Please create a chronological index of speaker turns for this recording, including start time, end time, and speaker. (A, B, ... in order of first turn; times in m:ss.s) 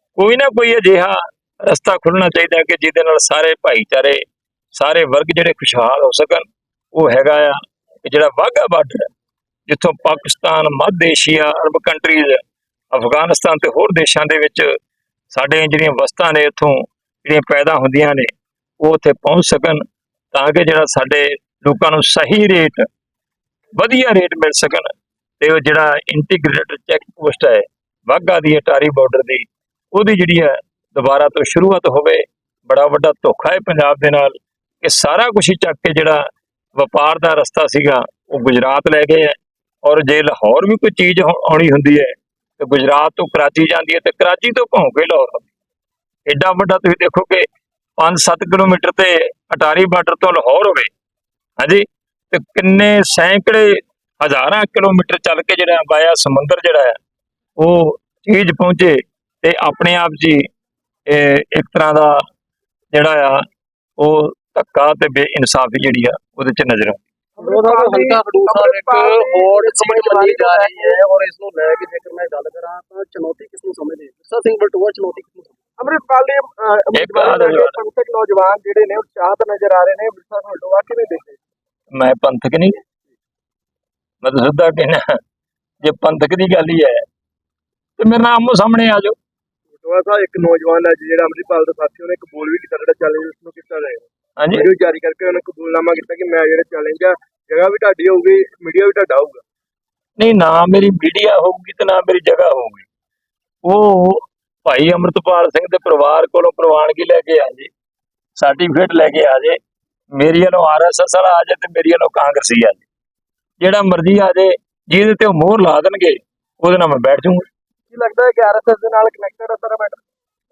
0:00.2-0:04.2 A
0:04.8-0:09.1 A
0:09.7-0:14.7 A
0:15.3-0:19.8 A
0:20.3-0:22.9 A
0:23.8-0:24.9 A
0:25.4-0:36.2 A
0:36.8-0:45.5 A
0:46.3-0:47.5 A
0:48.0-0:50.9 A
0:51.6-0:57.0 A
0:57.6-1:00.4 A
1:01.1-1:02.2 A
1:02.9-1:03.4 A
1:04.0-1:07.0 A
1:07.4-1:11.0 B
1:07.4-1:15.6 C
1:15.8-1:21.4 B
1:17.0-1:17.8 A
1:21.9-1:22.8 A
1:24.2-1:25.1 A
1:25.8-1:27.0 A
1:28.0-1:29.2 A
1:29.8-1:39.4 B
1:34.4-1:34.7 A
1:40.2-1:42.9 A
1:43.6-1:47.7 A
1:48.4-1:49.6 A
1:50.2-1:52.9 A
1:53.6-1:57.4 A
1:57.9-2:00.0 B